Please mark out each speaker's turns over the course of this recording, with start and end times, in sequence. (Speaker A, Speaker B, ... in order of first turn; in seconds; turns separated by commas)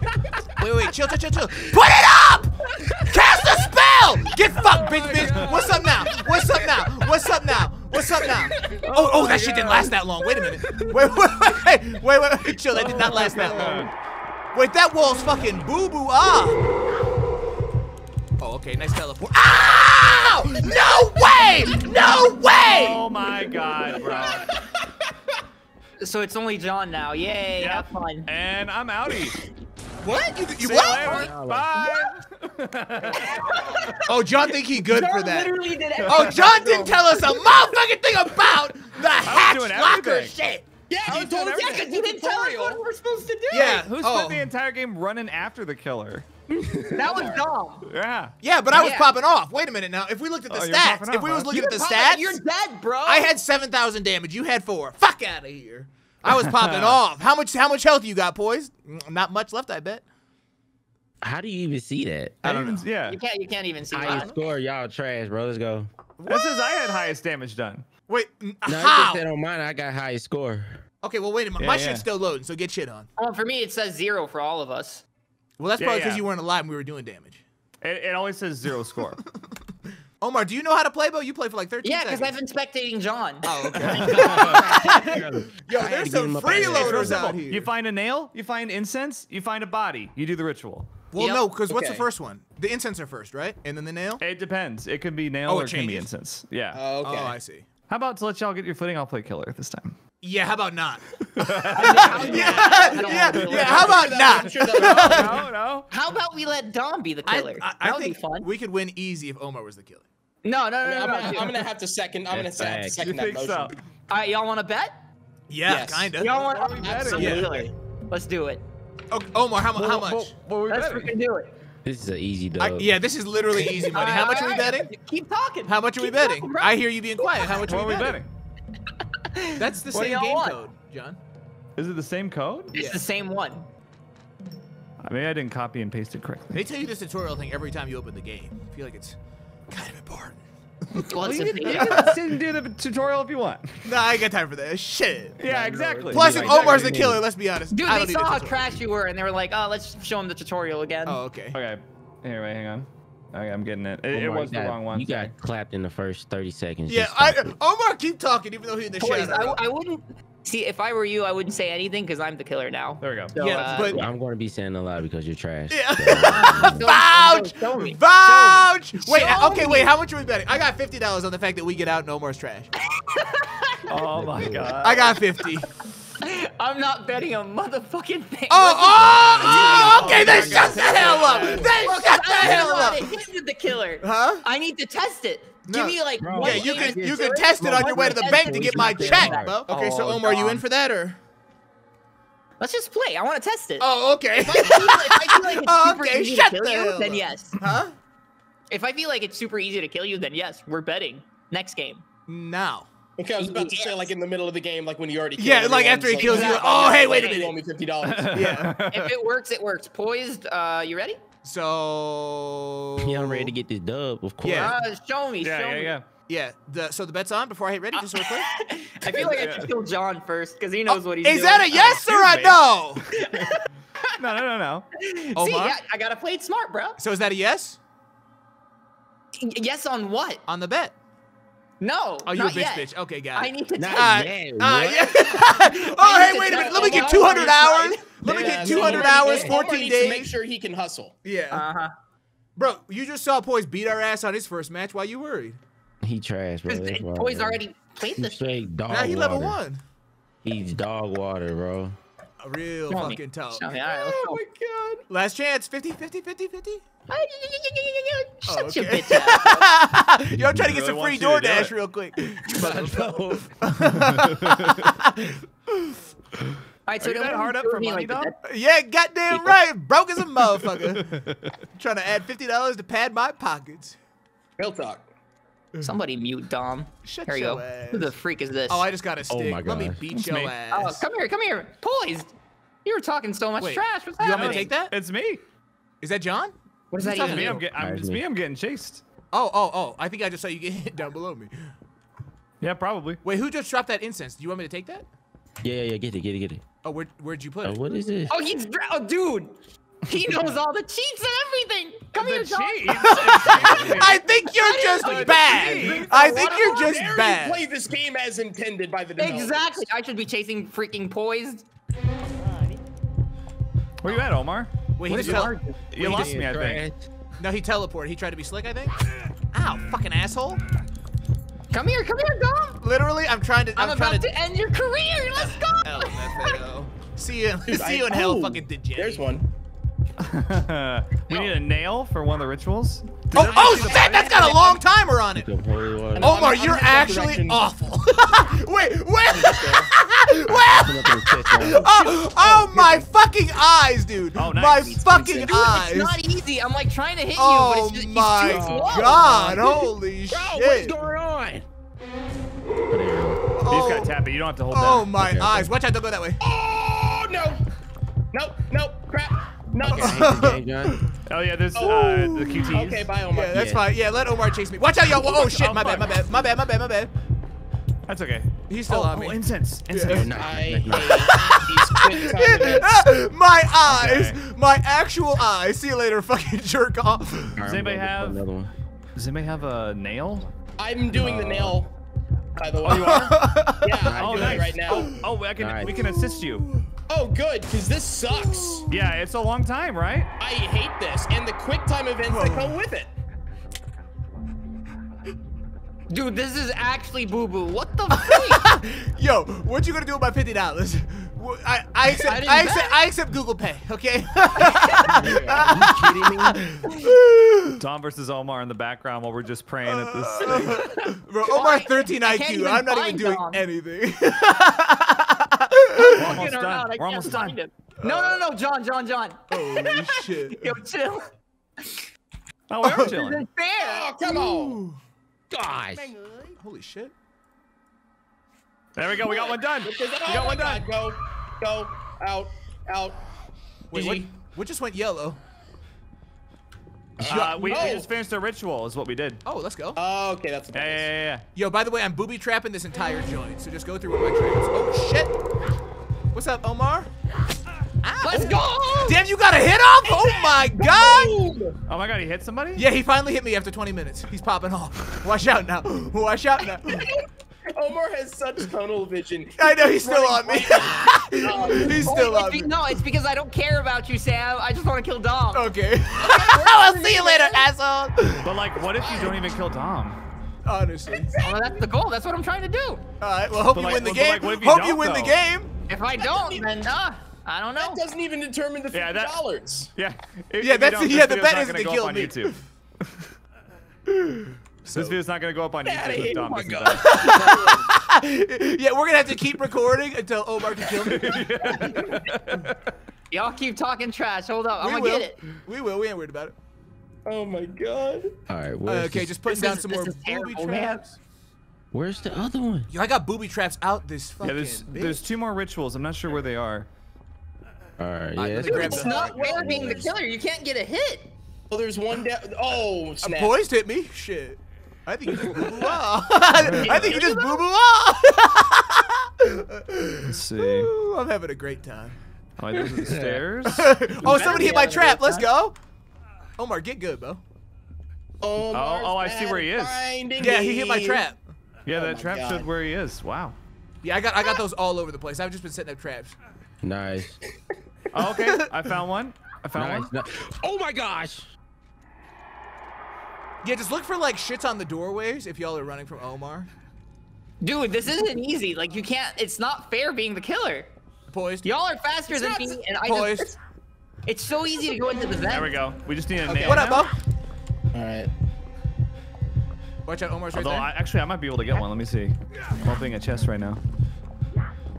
Speaker A: 0.6-2.5, Speaker B: 2.8-3.1, Speaker A: 3.0-13.9, Speaker C: 4.8-5.7, Speaker D: 5.0-6.3, Speaker D: 8.2-9.0, Speaker C: 9.0-9.9, Speaker C: 12.7-13.9, Speaker A: 14.5-16.6, Speaker A: 18.4-23.0, Speaker C: 22.6-24.5, Speaker D: 24.0-24.6, Speaker B: 26.0-28.3, Speaker C: 27.6-29.4, Speaker A: 30.0-31.3, Speaker C: 30.6-33.4, Speaker E: 31.0-31.7, Speaker D: 33.0-34.1, Speaker B: 33.1-34.1, Speaker A: 34.0-40.7, Speaker D: 34.8-37.5, Speaker B: 35.3-37.0, Speaker C: 36.0-36.4, Speaker C: 39.2-40.4, Speaker D: 40.9-42.8, Speaker C: 41.0-41.9, Speaker B: 41.5-43.9, Speaker A: 43.5-44.5, Speaker C: 43.5-46.2, Speaker D: 46.5-47.4, Speaker B: 47.0-47.9, Speaker C: 47.8-48.4, Speaker A: 48.4-52.4, Speaker B: 48.7-49.2, Speaker C: 50.5-51.5, Speaker B: 51.5-53.4, Speaker A: 53.0-60.0, Speaker C: 56.2-57.0, Speaker E: 61.2-62.6, Speaker C: 62.4-63.2, Speaker A: 62.4-62.8, Speaker B: 63.0-64.3, Speaker E: 63.9-65.9, Speaker A: 64.0-64.3, Speaker A: 66.2-66.8, Speaker C: 66.3-67.9, Speaker A: 68.1-69.2, Speaker E: 68.7-70.8, Speaker A: 71.0-73.1, Speaker C: 71.6-72.0, Speaker B: 73.2-75.0, Speaker A: 75.6-77.4, Speaker C: 75.8-76.2, Speaker C: 77.8-79.2, Speaker A: 80.2-82.3, Speaker B: 81.8-84.9, Speaker A: 83.4-87.7, Speaker E: 83.8-87.4, Speaker C: 84.0-84.6, Speaker C: 86.6-91.0, Speaker A: 91.1-94.2, Speaker B: 91.2-91.4, Speaker D: 91.7-92.0, Speaker C: 94.2-96.8, Speaker A: 95.5-96.1, Speaker D: 96.7-97.4, Speaker A: 97.0-97.6, Speaker C: 97.9-100.0, Speaker A: 100.2-105.5, Speaker C: 101.3-102.6, Speaker B: 101.7-104.5, Speaker D: 101.8-105.5, Speaker C: 104.6-105.9, Speaker B: 105.9-108.5, Speaker A: 107.2-110.0, Speaker B: 110.4-111.7, Speaker D: 110.8-113.7, Speaker E: 112.3-113.1, Speaker C: 113.0-113.7, Speaker B: 114.1-115.0, Speaker A: 115.5-116.3, Speaker D: 115.7-117.7, Speaker B: 116.2-118.6, Speaker C: 116.3-117.4, Speaker A: 117.2-117.5, Speaker A: 119.1-120.3, Speaker E: 119.7-120.5, Speaker C: 120.5-121.1, Speaker B: 120.7-121.5, Speaker E: 121.8-123.0, Speaker A: 122.6-124.9, Speaker B: 123.9-127.6, Speaker A: 125.6-128.2, Speaker C: 127.6-128.3, Speaker B: 129.1-130.6, Speaker A: 129.6-131.2, Speaker C: 131.8-132.7, Speaker B: 132.7-133.7, Speaker A: 132.7-133.0, Speaker C: 135.0-136.5, Speaker A: 136.5-139.2, Speaker A: 139.7-141.1, Speaker B: 141.0-142.2, Speaker C: 141.2-143.9, Speaker A: 141.6-142.2, Speaker A: 143.8-145.4, Speaker C: 145.4-146.7, Speaker D: 145.4-147.0, Speaker E: 146.1-147.2, Speaker A: 146.1-148.6, Speaker B: 147.7-151.2, Speaker A: 151.1-151.6, Speaker C: 151.5-155.3, Speaker E: 154.1-157.5, Speaker A: 156.9-159.6, Speaker B: 159.0-164.0, Speaker C: 163.0-163.4, Speaker A: 163.4-164.0, Speaker E: 163.9-166.9, Speaker A: 165.7-172.7, Speaker B: 166.2-169.9, Speaker B: 172.9-173.9, Speaker C: 173.9-175.2, Speaker E: 174.1-174.9, Speaker A: 174.8-175.7, Speaker B: 176.2-180.6, Speaker A: 178.5-183.2, Speaker E: 179.1-181.5, Speaker D: 179.4-181.7, Speaker C: 179.5-181.6, Speaker B: 181.3-190.6, Speaker A: 184.0-184.4, Speaker A: 185.7-191.2, Speaker E: 186.2-189.6, Speaker B: 192.6-197.6, Speaker A: 193.8-197.9, Speaker B: 198.7-202.0, Speaker A: 202.3-202.9, Speaker D: 203.2-208.7, Speaker B: 203.4-204.1, Speaker A: 205.4-207.6, Speaker B: 206.2-207.5, Speaker C: 208.0-209.1, Speaker A: 208.3-208.8, Speaker B: 208.8-211.2, Speaker A: 211.4-213.5, Speaker E: 213.0-214.7, Speaker A: 214.4-214.7, Speaker B: 214.5-215.9, Speaker C: 215.4-216.1, Speaker A: 216.3-218.5, Speaker B: 217.9-222.0, Speaker C: 219.2-219.7, Speaker A: 220.9-223.1, Speaker C: 221.9-222.6, Speaker B: 223.2-223.6, Speaker C: 223.2-223.5, Speaker C: 224.2-224.9, Speaker B: 225.0-227.0, Speaker A: 225.3-225.8, Speaker A: 227.0-227.8, Speaker B: 229.3-230.4, Speaker A: 230.5-230.9, Speaker B: 231.8-234.2, Speaker A: 232.2-240.3, Speaker E: 233.8-235.4, Speaker B: 235.7-239.7, Speaker D: 236.4-237.6, Speaker E: 238.2-239.6, Speaker D: 238.7-241.2, Speaker A: 241.2-241.7, Speaker B: 241.5-241.9, Speaker A: 242.6-245.6, Speaker E: 246.0-247.6, Speaker B: 246.7-248.5, Speaker E: 248.1-249.6, Speaker A: 248.9-249.8, Speaker E: 250.4-251.9, Speaker A: 252.4-253.6, Speaker B: 252.9-254.4, Speaker D: 253.7-255.0, Speaker A: 255.1-256.8, Speaker B: 257.1-259.6, Speaker A: 258.5-266.0, Speaker C: 260.6-261.7, Speaker E: 262.5-263.5, Speaker C: 264.3-264.6, Speaker B: 266.9-268.4, Speaker C: 267.0-268.3, Speaker A: 268.4-271.2, Speaker C: 270.8-271.4, Speaker A: 271.8-274.0, Speaker D: 274.6-275.1, Speaker B: 275.8-278.9, Speaker A: 277.0-278.1, Speaker A: 278.7-281.0, Speaker E: 279.3-280.0, Speaker C: 280.1-280.6, Speaker B: 280.7-282.3, Speaker B: 282.8-284.7, Speaker A: 283.6-284.9, Speaker C: 284.3-285.4, Speaker A: 286.0-287.6, Speaker B: 286.9-287.6, Speaker C: 287.2-289.0, Speaker E: 287.8-288.2, Speaker A: 289.3-291.7, Speaker C: 292.6-293.2, Speaker A: 293.2-295.1, Speaker E: 295.6-296.6, Speaker A: 296.8-298.0, Speaker E: 297.6-298.4, Speaker B: 298.3-306.9, Speaker C: 302.1-304.2, Speaker A: 302.9-307.6, Speaker C: 305.0-306.2, Speaker D: 305.8-309.8, Speaker B: 309.2-311.6, Speaker C: 314.0-316.8, Speaker A: 315.0-315.5, Speaker B: 315.1-315.8, Speaker E: 316.0-317.1, Speaker A: 317.4-318.9, Speaker A: 319.5-320.6, Speaker B: 321.7-322.8, Speaker A: 322.8-324.3, Speaker B: 323.8-326.6, Speaker A: 325.8-329.2, Speaker D: 327.7-329.5, Speaker C: 330.2-334.3, Speaker A: 333.3-335.5, Speaker B: 333.3-334.8, Speaker E: 335.3-336.5, Speaker A: 336.1-346.2, Speaker D: 336.1-337.7, Speaker D: 339.3-339.9, Speaker E: 340.4-341.9, Speaker D: 341.6-343.1, Speaker C: 344.3-345.0, Speaker D: 345.1-345.5, Speaker B: 345.5-349.2, Speaker A: 347.3-351.0, Speaker E: 348.5-349.8, Speaker D: 348.6-349.7, Speaker E: 350.3-351.6, Speaker D: 350.7-351.0, Speaker E: 352.9-353.4, Speaker A: 353.6-354.1, Speaker C: 353.7-355.1, Speaker A: 354.7-356.4, Speaker E: 355.1-355.7, Speaker D: 356.4-357.6, Speaker D: 358.3-360.5, Speaker A: 359.9-361.1, Speaker E: 359.9-361.0, Speaker C: 361.2-363.1, Speaker D: 361.8-363.7, Speaker A: 362.1-362.7, Speaker A: 363.3-367.1, Speaker E: 363.5-363.8, Speaker D: 365.3-366.0, Speaker C: 368.1-370.3, Speaker A: 368.7-370.3, Speaker E: 370.1-371.4, Speaker D: 370.1-373.1, Speaker A: 371.0-377.6, Speaker C: 373.8-374.4, Speaker E: 377.6-378.7, Speaker C: 377.6-378.4, Speaker C: 379.1-380.5, Speaker D: 380.8-381.9, Speaker E: 381.1-381.8, Speaker D: 382.6-385.2, Speaker A: 382.8-384.4, Speaker E: 384.0-384.8, Speaker C: 384.1-386.7, Speaker E: 385.6-385.9, Speaker A: 385.9-386.9, Speaker D: 387.1-388.9, Speaker A: 388.4-388.9, Speaker C: 388.9-390.3, Speaker D: 390.4-393.1, Speaker A: 392.3-392.8, Speaker B: 396.1-398.6, Speaker A: 398.1-407.8, Speaker B: 402.1-403.0, Speaker B: 404.8-405.2, Speaker D: 405.1-406.5, Speaker E: 405.7-406.5, Speaker C: 407.8-410.8, Speaker A: 409.9-416.4, Speaker B: 410.5-413.6, Speaker B: 415.9-421.3, Speaker C: 416.1-417.6, Speaker A: 418.0-418.4, Speaker A: 419.5-420.7, Speaker C: 422.7-423.4, Speaker A: 422.8-423.1, Speaker B: 422.8-424.1, Speaker D: 423.8-424.8, Speaker A: 424.2-425.0, Speaker E: 425.5-426.1, Speaker A: 426.6-427.1, Speaker C: 428.9-430.9, Speaker D: 429.1-433.2, Speaker D: 433.9-434.3, Speaker A: 433.9-435.4, Speaker D: 437.2-438.1, Speaker A: 437.2-438.0, Speaker C: 437.2-439.4, Speaker A: 439.4-440.0, Speaker D: 439.9-441.1, Speaker C: 440.7-441.4, Speaker A: 441.5-445.3, Speaker A: 446.3-447.1, Speaker A: 448.0-451.4, Speaker B: 448.2-449.2, Speaker D: 448.3-448.6, Speaker D: 450.0-451.8, Speaker C: 451.9-452.9, Speaker A: 452.8-457.1, Speaker D: 456.8-462.3, Speaker A: 459.6-463.0, Speaker B: 461.4-465.7, Speaker A: 465.5-468.5, Speaker D: 466.2-467.7, Speaker C: 468.4-470.2, Speaker D: 468.8-469.4, Speaker A: 470.6-471.3, Speaker D: 471.1-471.8, Speaker B: 471.4-473.0, Speaker A: 473.2-475.7, Speaker C: 473.7-475.4, Speaker B: 475.9-478.0, Speaker D: 476.1-476.9, Speaker D: 477.8-479.9, Speaker C: 478.9-479.4, Speaker C: 479.9-483.2, Speaker A: 480.6-482.6, Speaker A: 484.1-485.2, Speaker C: 484.9-487.5, Speaker D: 485.8-487.9, Speaker A: 487.0-491.4, Speaker C: 491.0-492.8, Speaker D: 491.7-492.2, Speaker B: 493.3-495.4, Speaker A: 494.8-496.5, Speaker D: 497.2-498.3, Speaker E: 498.5-499.3, Speaker A: 498.9-501.2, Speaker B: 499.4-501.0, Speaker E: 501.9-502.9, Speaker A: 502.9-505.2, Speaker C: 504.4-506.9, Speaker E: 508.0-510.1, Speaker A: 508.4-509.4, Speaker D: 508.6-510.1, Speaker B: 508.7-511.3, Speaker D: 511.7-513.5, Speaker A: 513.2-522.2, Speaker D: 515.3-515.9, Speaker C: 516.6-517.1, Speaker B: 516.8-517.2, Speaker D: 516.9-517.6, Speaker C: 520.3-520.9, Speaker C: 522.6-524.6, Speaker E: 523.0-523.4, Speaker A: 523.6-525.8, Speaker D: 524.2-525.4, Speaker A: 526.6-527.4, Speaker D: 528.4-531.2, Speaker C: 528.7-530.0, Speaker A: 530.4-531.4, Speaker C: 531.9-533.5, Speaker D: 531.9-532.7, Speaker A: 534.0-536.4, Speaker E: 536.8-537.4, Speaker C: 538.1-540.1, Speaker A: 538.4-538.7, Speaker E: 539.7-541.5, Speaker A: 543.6-546.7, Speaker B: 547.6-550.9, Speaker A: 551.3-551.7, Speaker B: 551.6-553.5, Speaker D: 552.3-552.9, Speaker A: 553.0-553.5, Speaker B: 554.2-555.7, Speaker D: 554.9-555.2, Speaker C: 555.5-557.1, Speaker D: 556.5-556.8, Speaker A: 556.5-557.1, Speaker D: 557.9-558.3, Speaker A: 560.0-560.9, Speaker C: 560.5-563.8